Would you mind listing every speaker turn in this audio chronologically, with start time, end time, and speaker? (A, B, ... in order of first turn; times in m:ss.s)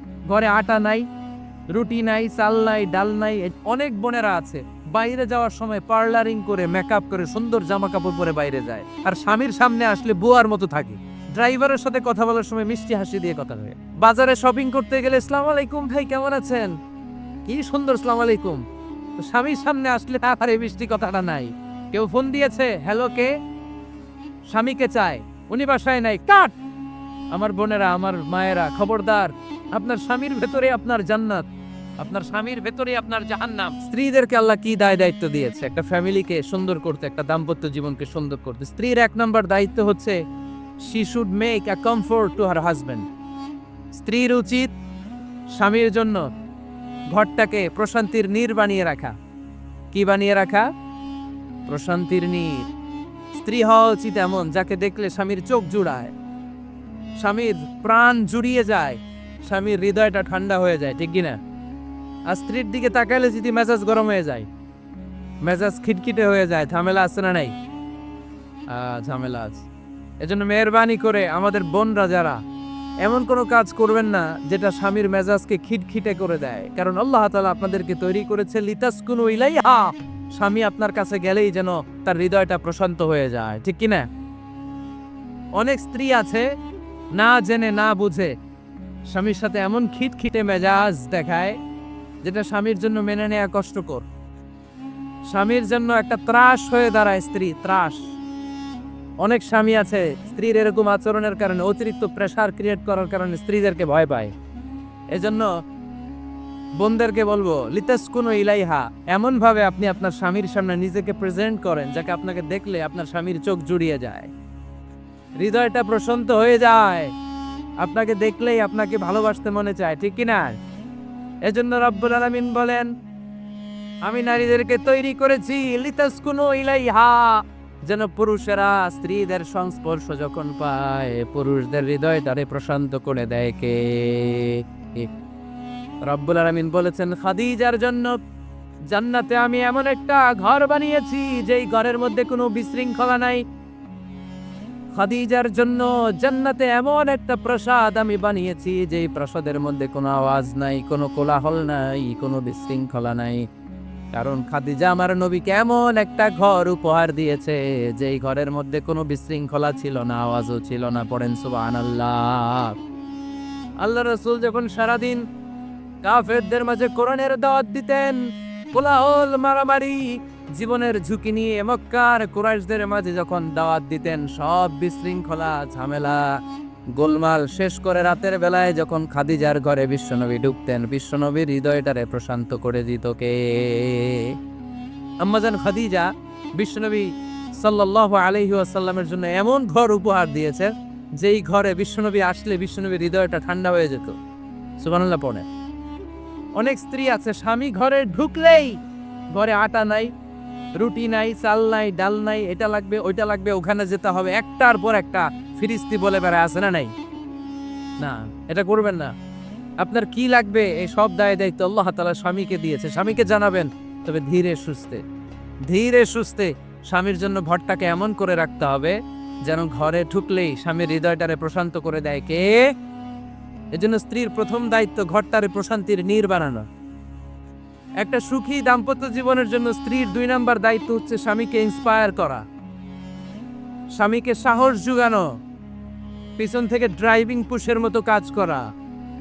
0:00.3-0:01.0 A
0:01.7-0:16.7 A
0:17.5-0:18.6 A
0:19.2-0:23.3 A
0:24.5-0:26.5 A
0:27.3-0:31.4 A
0:32.0-0:40.2 A
0:40.9-0:43.0 A
0:43.9-0:44.7 A
0:45.6-0:46.2 A
0:47.1-0:49.1 A
0:49.9-0:50.7 A
0:51.7-0:52.6 A
0:53.3-0:56.1 A
0:57.2-1:01.4 A
1:02.3-1:04.5 A
1:05.4-1:07.5 A
1:08.7-1:09.7 A
1:10.2-1:12.4 A
1:13.0-1:24.1 A
1:25.6-1:26.4 A
1:27.2-1:28.3 A
1:29.1-1:31.6 A
1:32.2-1:34.0 A
1:35.3-1:38.0 A
1:39.2-1:44.3 A
1:45.1-1:45.5 A
1:46.8-1:54.3 A
1:55.4-1:57.1 A
1:57.8-2:00.5 A
2:01.5-2:02.9 A
2:04.0-2:15.1 A
2:16.1-2:18.2 A
2:18.9-2:23.4 A
2:25.0-2:33.4 A
2:34.2-2:42.7 A
2:43.8-2:45.2 A
2:46.0-2:48.2 A
2:48.7-2:56.2 A
2:57.0-3:04.3 A
3:05.2-3:07.1 A
3:07.6-3:14.2 A
3:14.8-3:15.5 A
3:16.6-3:18.8 A
3:19.3-3:20.1 A
3:20.8-3:26.9 A
3:28.0-3:29.1 A
3:29.8-3:35.0 A
3:35.7-3:39.0 A
3:39.5-3:42.7 A
3:43.8-3:46.6 A
3:48.0-3:52.4 A
3:54.0-3:55.2 A
3:56.4-3:58.6 A